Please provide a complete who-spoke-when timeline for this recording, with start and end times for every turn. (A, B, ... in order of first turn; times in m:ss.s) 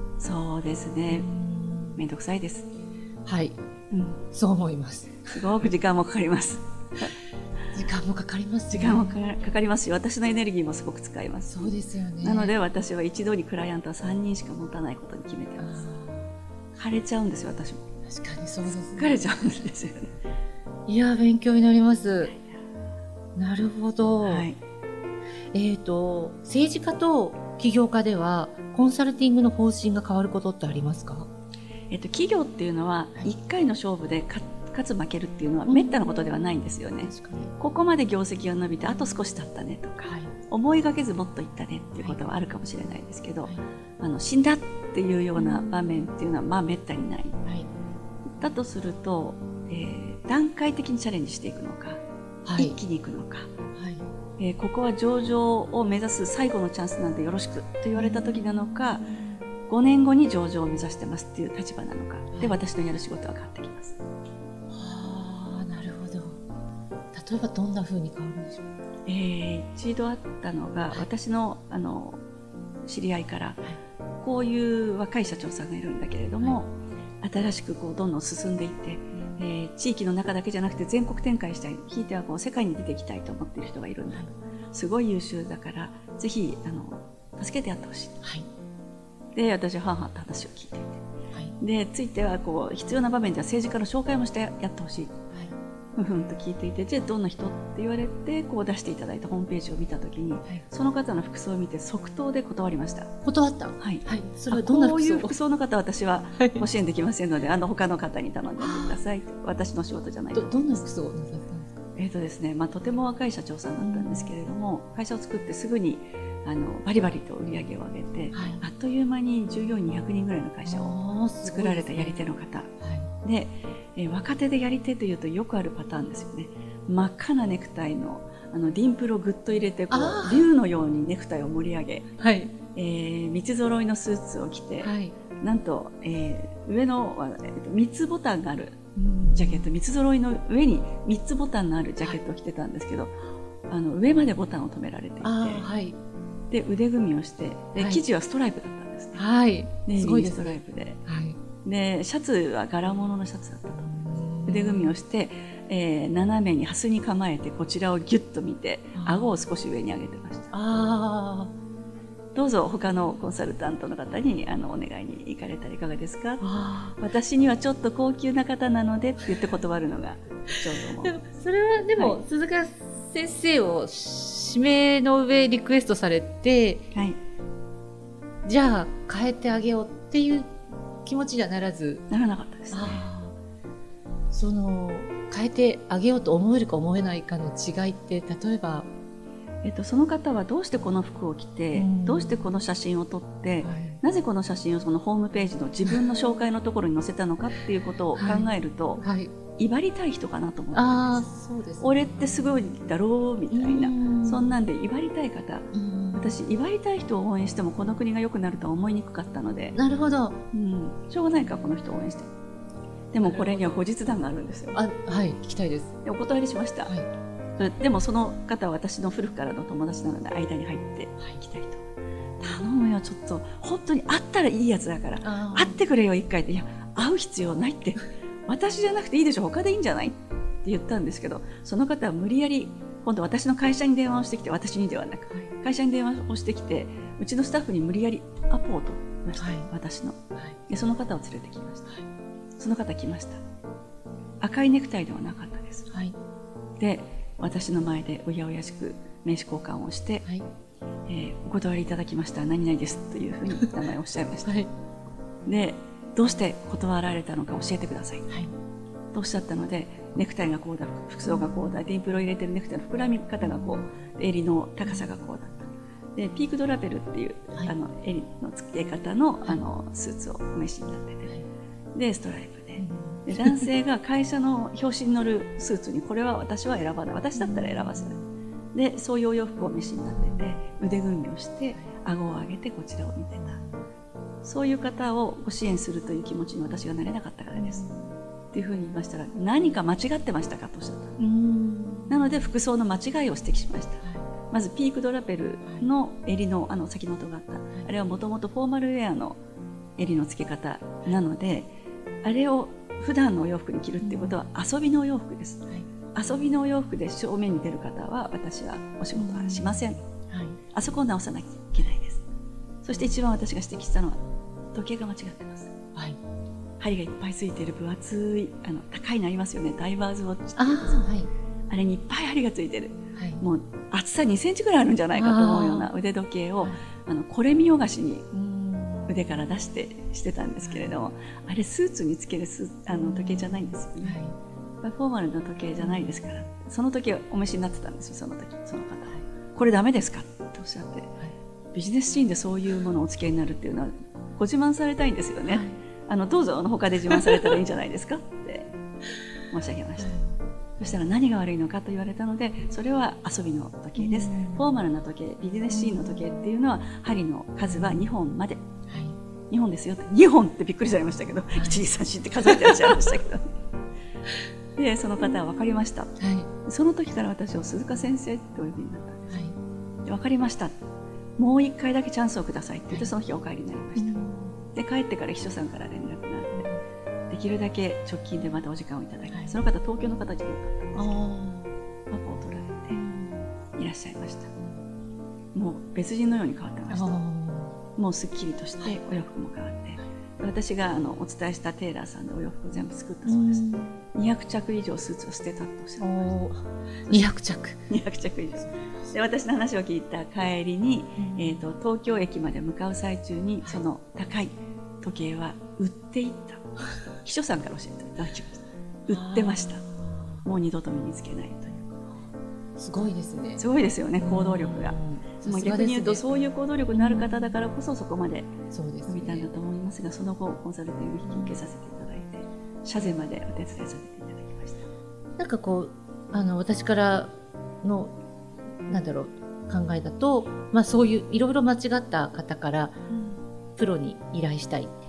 0:00.2-0:01.2 A
0:01.1-0:02.1 B
0:02.0-0:02.7 A
0:03.2-0:03.6 B
0:03.9-0:04.2 A
0:04.3-0:05.3 B
0:05.2-0:07.1 A
0:07.7-0:09.2 B
0:08.7-0:15.8 A
0:11.5-0:12.5 B
0:15.6-0:16.3 B
0:16.7-0:17.8 A
0:18.0-0:19.3 B
0:18.6-0:20.1 A
0:20.9-0:22.3 B
0:22.2-0:22.7 A
0:23.4-0:24.5 B
0:24.2-0:24.6 A
0:25.5-0:31.3 B
0:31.9-0:47.4 A
0:35.7-0:35.9 B
0:37.0-0:37.5 B
0:45.4-0:45.7 B
0:48.3-0:52.0 A
0:52.4-0:52.8 B
0:52.6-0:53.5 A
0:53.7-0:54.0 B
0:54.4-0:59.1 A
0:57.9-0:58.5 B
0:59.7-1:04.0 A
1:04.7-1:06.4 B
1:07.1-1:08.6 B
1:09.0-1:12.2 A
1:12.8-1:13.6 A
1:14.2-1:28.2 A
1:29.3-1:31.0 A
1:31.6-1:35.2 A
1:35.9-1:43.1 A
1:43.2-1:45.3 B
1:43.8-1:50.8 A
1:46.4-1:46.6 B
1:48.6-1:49.0 B
1:50.3-1:51.7 B
1:52.0-2:12.1 A
1:53.8-1:54.3 B
1:58.3-1:58.6 B
2:00.6-2:02.2 B
2:02.8-2:03.1 B
2:09.9-2:10.5 B
2:12.2-2:12.5 B
2:12.7-2:23.1 A
2:14.8-2:15.2 B
2:19.0-2:19.7 B
2:23.7-2:25.6 A
2:25.2-2:26.0 B
2:26.5-2:29.2 A
2:27.8-2:28.0 B
2:29.2-2:31.4 B
2:29.8-2:31.0 A
2:31.6-2:40.5 A
2:33.8-2:34.9 B
2:39.0-2:39.4 B
2:40.5-2:41.5 B
2:42.3-2:51.1 A
2:46.4-2:47.0 B
2:51.0-2:56.8 B
2:56.9-2:57.2 A
2:58.4-3:02.0 B
3:02.1-3:03.0 A
3:02.7-3:03.3 B
3:04.3-3:08.9 B
3:09.6-3:19.0 A
3:11.7-3:12.5 B
3:13.6-3:14.0 B
3:18.1-3:19.3 B
3:19.6-3:29.8 A
3:20.7-3:22.0 B
3:23.5-3:24.6 B
3:25.7-3:26.4 B
3:29.8-3:30.4 B
3:30.5-3:32.3 A
3:33.1-3:34.8 A
3:33.2-3:33.8 B
3:34.7-3:35.9 B
3:36.0-3:36.9 A
3:37.6-3:41.9 A
3:42.4-4:02.0 A
3:45.2-3:45.8 B
3:59.4-3:59.7 B
4:02.6-4:03.4 A
4:04.4-4:05.9 A
4:06.8-4:10.3 A
4:11.1-4:14.6 A
4:14.4-4:14.7 B
4:15.4-4:18.3 A
4:19.1-4:31.3 A
4:23.5-4:23.8 B
4:31.9-4:38.2 A
4:32.8-4:33.7 B
4:37.3-4:38.2 B
4:38.7-4:43.6 A
4:40.1-4:40.6 B
4:43.5-4:43.8 B
4:44.4-4:47.8 A
4:47.5-4:48.1 B
4:48.5-4:51.2 A
4:51.2-4:52.4 B
4:52.1-4:59.4 A
5:00.0-5:01.7 A
5:02.2-5:10.0 A
5:04.0-5:04.4 B
5:09.1-5:10.6 B
5:10.7-5:12.2 A
5:12.8-5:14.2 A
5:14.7-5:15.7 A
5:16.8-5:21.1 A
5:20.6-5:21.3 B
5:21.7-5:28.3 A
5:23.2-5:23.4 B
5:25.1-5:25.9 B
5:28.3-5:29.1 B
5:29.0-5:34.2 A
5:30.6-5:31.0 B
5:33.0-5:34.4 B
5:34.8-5:41.2 A
5:35.8-5:36.4 B
5:41.7-5:48.7 A
5:45.5-5:45.7 B
5:47.1-5:47.6 B
5:49.5-5:50.1 A
5:50.0-5:50.3 B
5:50.8-5:58.6 A
5:54.0-5:54.8 B
5:55.7-5:56.2 B
5:57.7-5:58.1 B
5:58.9-5:59.2 B
5:59.5-6:03.5 A
6:01.6-6:01.9 B
6:02.7-6:03.0 B
6:04.8-6:09.3 A
6:06.2-6:06.5 B
6:09.3-6:09.5 B
6:10.0-6:10.8 A
6:11.4-6:14.2 A
6:14.0-6:14.6 B
6:14.7-6:16.7 A
6:17.3-6:21.2 A
6:19.3-6:19.6 B
6:21.0-6:21.7 B
6:22.1-6:23.0 A
6:22.9-6:23.4 B
6:23.7-6:24.5 A
6:25.5-6:27.1 A
6:26.9-6:27.8 B
6:28.0-6:36.4 A
6:33.2-6:34.0 B
6:36.0-6:37.8 B
6:37.0-6:37.3 A
6:37.9-6:46.6 A
6:38.6-6:39.1 B
6:41.2-6:41.7 B
6:47.2-6:49.8 A
6:49.1-6:50.5 B
6:50.4-6:52.0 A
6:52.8-6:53.6 B
6:53.6-6:58.5 A
6:54.2-6:56.2 B
6:56.9-6:57.5 B
6:58.7-6:59.5 B
6:59.1-7:04.8 A
7:01.3-7:01.6 B
7:05.4-7:07.3 B
7:07.8-7:08.1 B
7:08.9-7:13.0 B
7:13.1-7:13.4 A
7:13.8-7:14.9 B